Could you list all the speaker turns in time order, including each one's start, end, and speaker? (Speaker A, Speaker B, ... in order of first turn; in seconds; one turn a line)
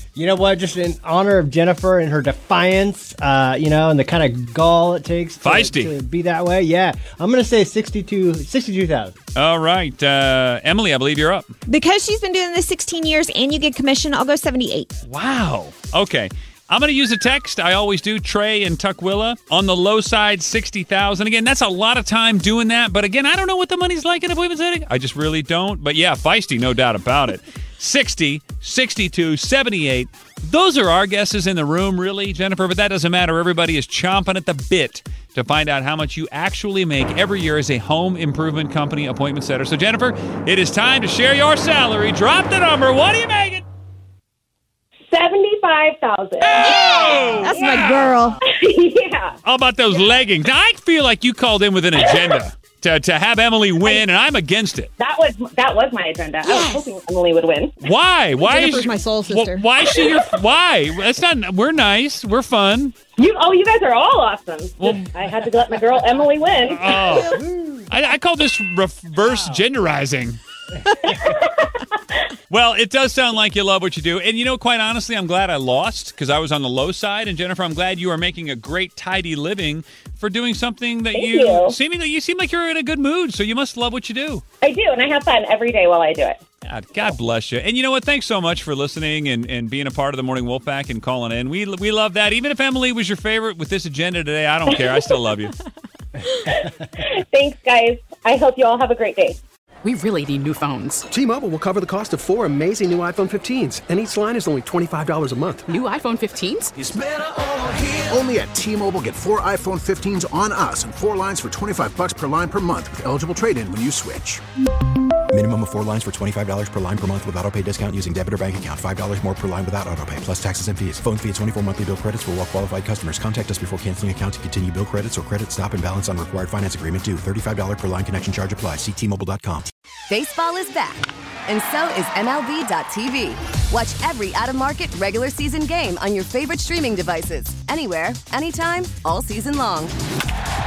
Speaker A: 0.1-9.1
Speaker B: 5.4-5.9
Speaker B: 9.4-11.5
Speaker C: 11.7-14.9
Speaker B: 15.1-43.6
Speaker D: 45.1-46.7
Speaker C: 46.6-48.4
Speaker B: 46.7-48.1
Speaker D: 48.5-49.4
Speaker B: 49.4-54.9
Speaker D: 55.0-57.7
Speaker C: 56.4-56.9
Speaker B: 57.8-62.9
Speaker C: 58.4-59.7
Speaker D: 63.1-66.9
Speaker B: 64.8-65.0
Speaker B: 66.7-70.4
Speaker A: 67.4-67.8
Speaker D: 71.1-71.7
Speaker B: 72.5-84.4
Speaker D: 81.1-81.8
Speaker D: 84.6-86.4
Speaker B: 86.6-95.5
Speaker D: 96.6-99.4
Speaker E: 99.8-101.0
Speaker F: 101.1-105.8
Speaker E: 105.7-106.7
Speaker G: 106.8-114.4
Speaker H: 115.3-129.7
Speaker I: 130.1-139.9